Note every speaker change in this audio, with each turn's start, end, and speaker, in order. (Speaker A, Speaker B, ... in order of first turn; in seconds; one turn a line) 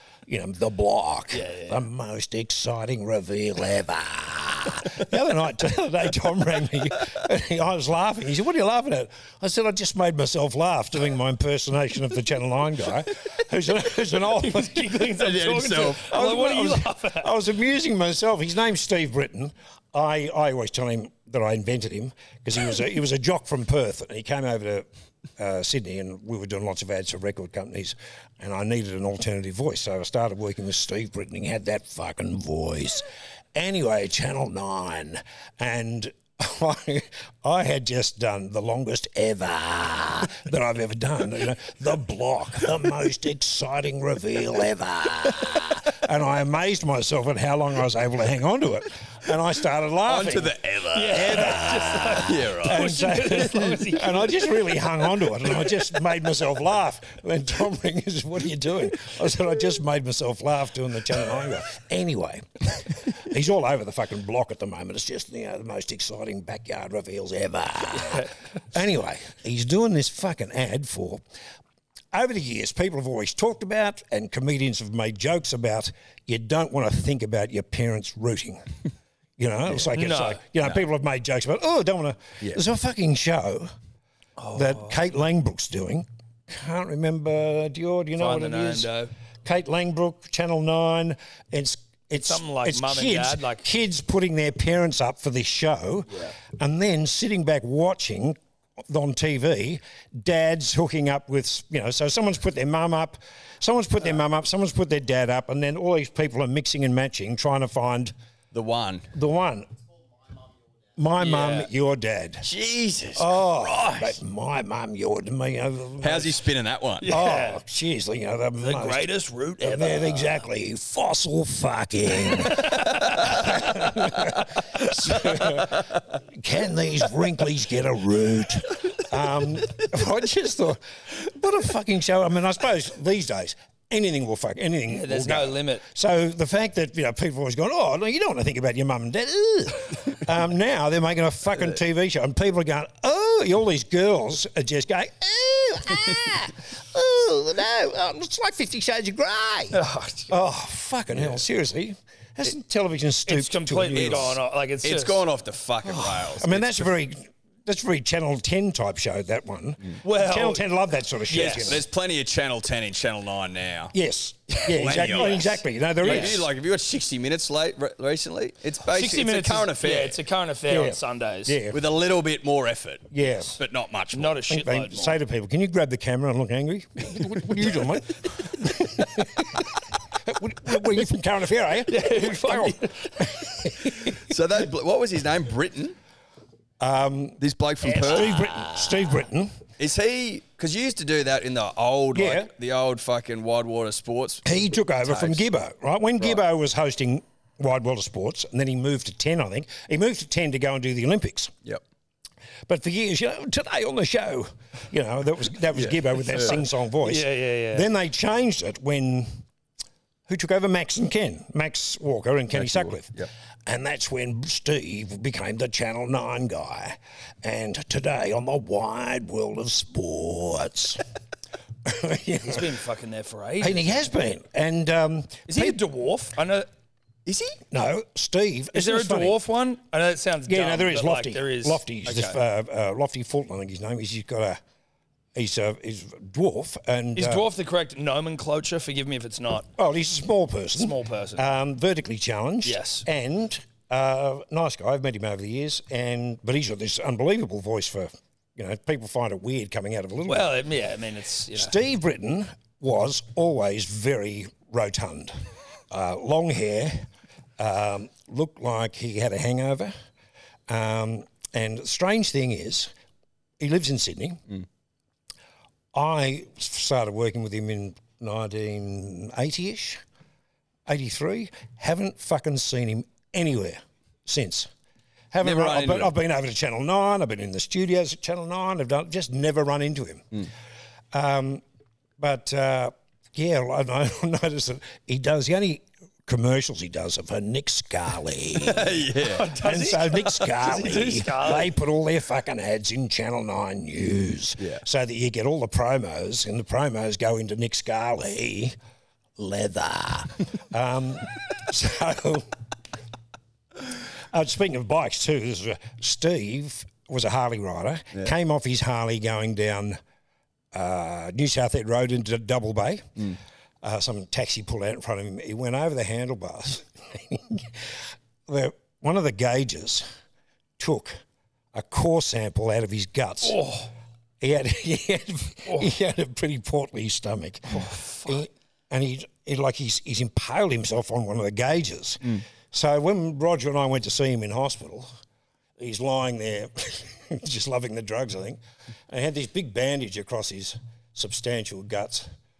Speaker A: 0.3-15.1
Speaker B: 1.3-1.8
Speaker B: 14.3-17.3
Speaker C: 15.1-16.1
Speaker A: 16.0-24.9
Speaker A: 25.4-50.5
Speaker C: 50.0-52.9
Speaker B: 50.9-54.5
Speaker A: 51.1-71.2
Speaker B: 68.0-68.3
Speaker A: 72.1-78.6
Speaker A: 79.4-83.7
Speaker B: 79.9-80.4
Speaker B: 84.4-85.0
Speaker A: 84.5-88.9
Speaker B: 88.2-89.1
Speaker A: 89.4-98.4
Speaker B: 92.1-93.6
Speaker A: 98.9-108.1
Speaker C: 108.5-109.1
Speaker A: 109.1-109.7
Speaker A: 111.0-112.5
Speaker B: 111.2-111.7
Speaker C: 112.4-113.3
Speaker A: 113.2-116.4
Speaker C: 116.0-117.1
Speaker B: 117.0-117.6
Speaker A: 117.1-149.8
Speaker B: 118.6-120.4
Speaker B: 122.8-123.5
Speaker B: 134.9-135.8
Speaker B: 149.7-150.3
Speaker A: 150.3-154.4
Speaker B: 153.3-155.2
Speaker C: 153.9-156.9
Speaker A: 155.8-161.8
Speaker B: 160.0-160.6
Speaker B: 161.3-161.8
Speaker C: 161.4-163.9
Speaker A: 163.9-166.5
Speaker C: 164.6-170.2
Speaker B: 166.0-166.4
Speaker B: 168.8-171.6
Speaker A: 170.7-171.8
Speaker C: 171.7-174.4
Speaker A: 173.1-173.6
Speaker B: 174.1-175.2
Speaker A: 174.5-184.3
Speaker B: 181.9-183.2
Speaker C: 184.1-185.9
Speaker A: 186.8-189.6
Speaker C: 187.4-188.6
Speaker C: 189.8-195.4
Speaker A: 192.1-192.5
Speaker A: 194.4-201.5
Speaker A: 202.7-209.3
Speaker C: 205.8-206.6
Speaker B: 207.0-207.9
Speaker A: 210.3-221.0
Speaker C: 212.5-213.3
Speaker A: 221.8-222.7
Speaker B: 222.4-224.1
Speaker A: 223.6-225.8
Speaker B: 225.5-226.7
Speaker C: 227.2-227.6
Speaker A: 227.7-229.4
Speaker B: 228.7-232.4
Speaker A: 230.5-234.6
Speaker A: 235.3-237.5
Speaker B: 237.2-239.7
Speaker A: 239.8-250.5
Speaker B: 240.7-241.5
Speaker B: 242.6-243.1
Speaker B: 250.3-251.7
Speaker A: 251.5-255.3
Speaker A: 255.9-257.1
Speaker A: 257.6-259.9
Speaker A: 260.7-262.9
Speaker A: 263.6-264.4
Speaker A: 265.9-270.0
Speaker A: 270.9-274.7
Speaker A: 275.3-280.4
Speaker C: 275.4-276.1
Speaker A: 281.1-281.6
Speaker A: 282.2-298.7
Speaker C: 288.6-289.5
Speaker B: 289.1-291.7
Speaker A: 299.4-302.5
Speaker A: 303.8-310.0
Speaker A: 310.7-313.3
Speaker A: 313.8-320.1
Speaker A: 320.8-321.1
Speaker A: 321.7-323.6
Speaker B: 323.4-323.9
Speaker A: 324.4-335.1
Speaker B: 327.7-328.4
Speaker A: 335.8-342.3